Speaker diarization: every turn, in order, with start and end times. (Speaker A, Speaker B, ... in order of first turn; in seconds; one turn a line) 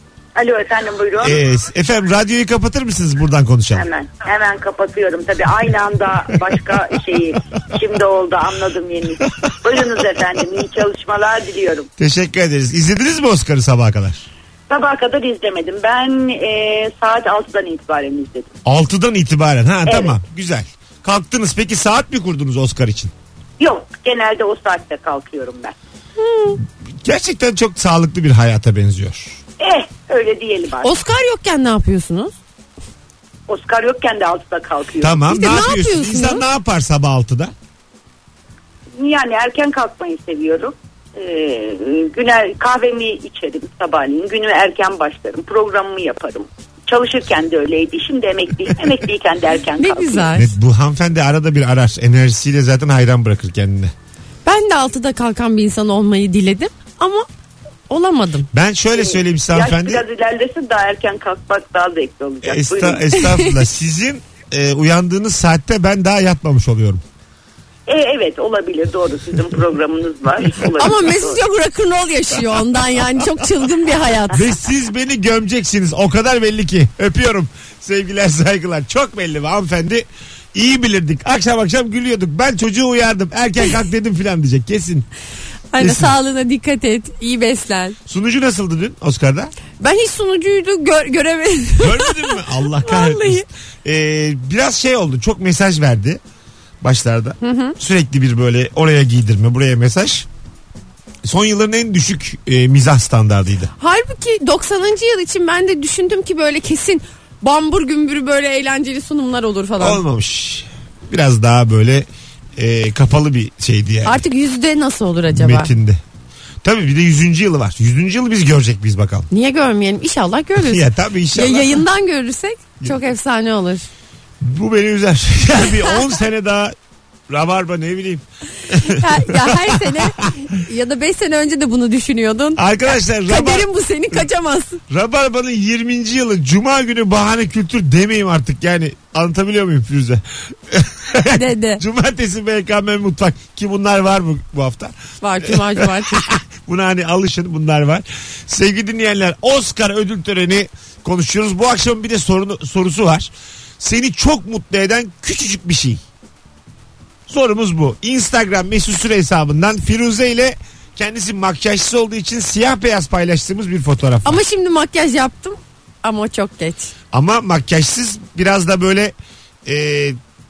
Speaker A: 0.3-1.4
Speaker B: 1.2-3.9
Speaker A: 3.7-11.9
Speaker B: 12.0-14.3
Speaker A: 14.7-18.5
Speaker B: 18.6-23.1
Speaker A: 19.9-20.1
Speaker A: 23.6-25.7
Speaker C: 26.2-26.6
Speaker B: 27.0-29.4
Speaker A: 29.6-30.9
Speaker C: 30.8-32.3
Speaker A: 33.5-35.2
Speaker B: 35.0-37.5
Speaker C: 35.3-36.4
Speaker A: 39.0-50.3
Speaker C: 49.8-50.5
Speaker B: 50.3-53.9
Speaker C: 54.5-57.3
Speaker C: 57.9-58.5
Speaker B: 58.5-60.0
Speaker A: 58.9-63.1
Speaker B: 62.4-67.0
Speaker C: 63.1-63.6
Speaker A: 67.9-71.4
Speaker C: 70.8-74.4
Speaker B: 74.3-85.1
Speaker C: 85.7-88.0
Speaker B: 85.8-86.1
Speaker B: 88.1-89.5
Speaker C: 89.8-93.5
Speaker B: 91.8-96.2
Speaker B: 96.8-100.3
Speaker C: 97.4-97.8
Speaker B: 101.2-103.7
Speaker C: 103.8-110.0
Speaker B: 109.8-114.2
Speaker C: 114.0-115.7
Speaker B: 115.3-116.0
Speaker B: 116.6-119.3
Speaker C: 119.3-120.8
Speaker B: 120.5-121.8
Speaker C: 121.3-123.9
Speaker B: 124.4-126.7
Speaker B: 127.3-130.1
Speaker C: 128.7-134.8
Speaker B: 132.6-134.2
Speaker B: 134.9-156.0
Speaker C: 141.3-141.8
Speaker C: 145.2-146.3
Speaker B: 157.3-164.4
Speaker C: 164.2-166.9
Speaker B: 167.1-170.2